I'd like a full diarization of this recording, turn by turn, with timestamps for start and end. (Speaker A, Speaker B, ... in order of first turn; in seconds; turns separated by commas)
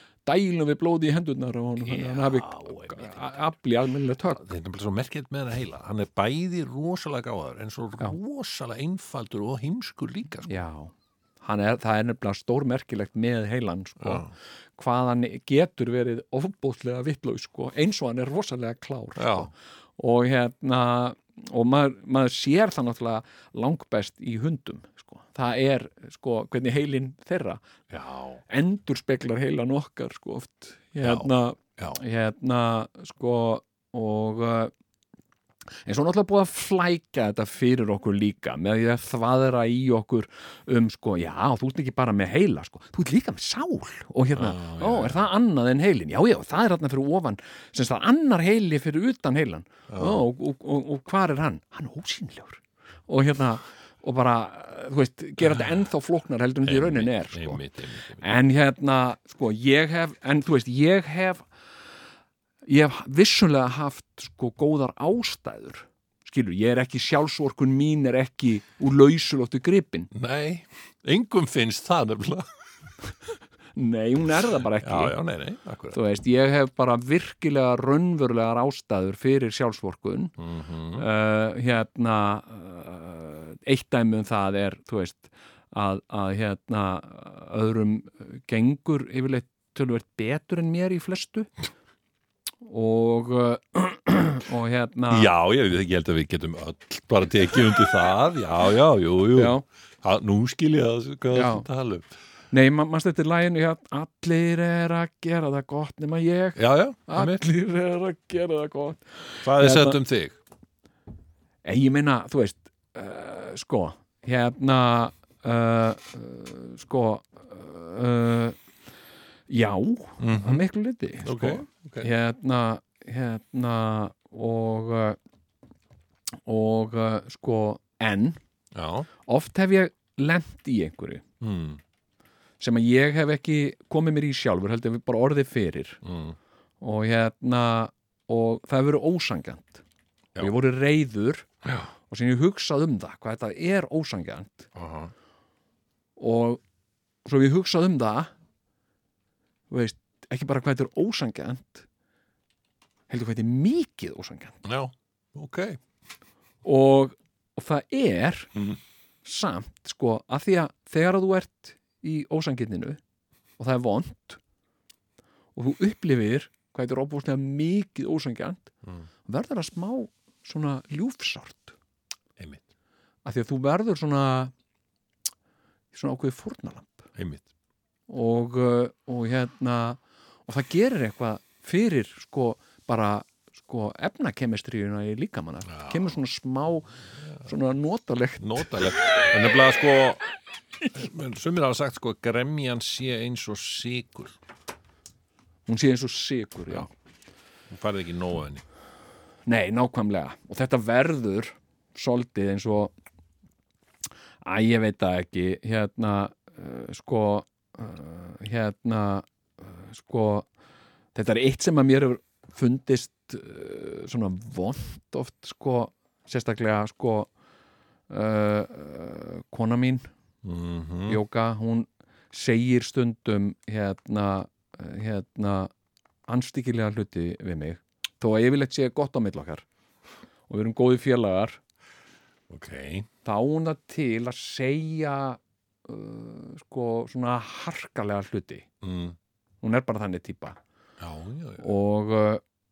Speaker A: 0.2-4.5, Speaker B: 1.8-3.4, Speaker B: 4.3-10.6, Speaker A: 10.5-27.6, Speaker B: 14.0-14.3, Speaker B: 19.2-19.5, Speaker B: 27.9-28.4, Speaker A: 28.5-34.7, Speaker B: 31.0-32.0, Speaker A: 35.8-57.6, Speaker B: 44.4-45.2, Speaker B: 49.9-50.2, Speaker B: 56.6-58.2, Speaker A: 58.2-61.5, Speaker A: 62.6-70.1, Speaker B: 70.1-72.5, Speaker A: 73.8-75.2, Speaker B: 74.8-76.0, Speaker A: 75.9-80.3, Speaker B: 80.4-81.1, Speaker A: 81.0-91.5, Speaker A: 92.6-95.3, Speaker B: 95.1-102.1, Speaker A: 99.3-99.6, Speaker A: 101.3-101.7, Speaker A: 102.5-110.0, Speaker B: 106.6-107.4, Speaker B: 109.4-110.4, Speaker A: 111.6-118.6, Speaker A: 119.5-125.2, Speaker B: 120.2-120.7, Speaker B: 121.2-122.1, Speaker A: 126.5-128.4, Speaker B: 128.8-129.1, Speaker A: 129.2-131.2, Speaker B: 131.4-131.8, Speaker A: 132.6-136.0, Speaker B: 136.0-136.4, Speaker A: 136.8-139.8, Speaker A: 140.4-141.5, Speaker B: 141.6-141.9, Speaker A: 142.1-144.7, Speaker B: 144.8-145.1, Speaker A: 146.2-146.6, Speaker A: 147.2-148.3, Speaker A: 149.7-151.9, Speaker A: 153.1-154.6, Speaker B: 154.6-155.8, Speaker A: 156.6-158.5, Speaker A: 159.2-163.0, Speaker A: 163.6-164.4, Speaker A: 165.6-168.7, Speaker A: 169.3-171.8, Speaker B: 172.4-172.6, Speaker A: 173.2-174.5, Speaker A: 175.9-177.1, Speaker B: 177.2-177.5, Speaker A: 178.1-186.9, Speaker B: 185.7-186.2, Speaker A: 187.4-188.9, Speaker B: 188.4-190.2, Speaker B: 190.9-194.4, Speaker A: 195.7-196.9, Speaker B: 197.7-198.6, Speaker A: 199.4-202.9, Speaker A: 204.4-210.5, Speaker A: 211.1-217.3, Speaker A: 218.1-220.1, Speaker B: 220.4-221.2, Speaker A: 221.1-225.7, Speaker A: 226.3-229.7, Speaker A: 230.5-231.6, Speaker B: 232.5-233.1, Speaker A: 233.2-238.7, Speaker B: 238.8-239.2, Speaker A: 239.6-240.6, Speaker B: 241.0-241.7, Speaker A: 241.6-242.4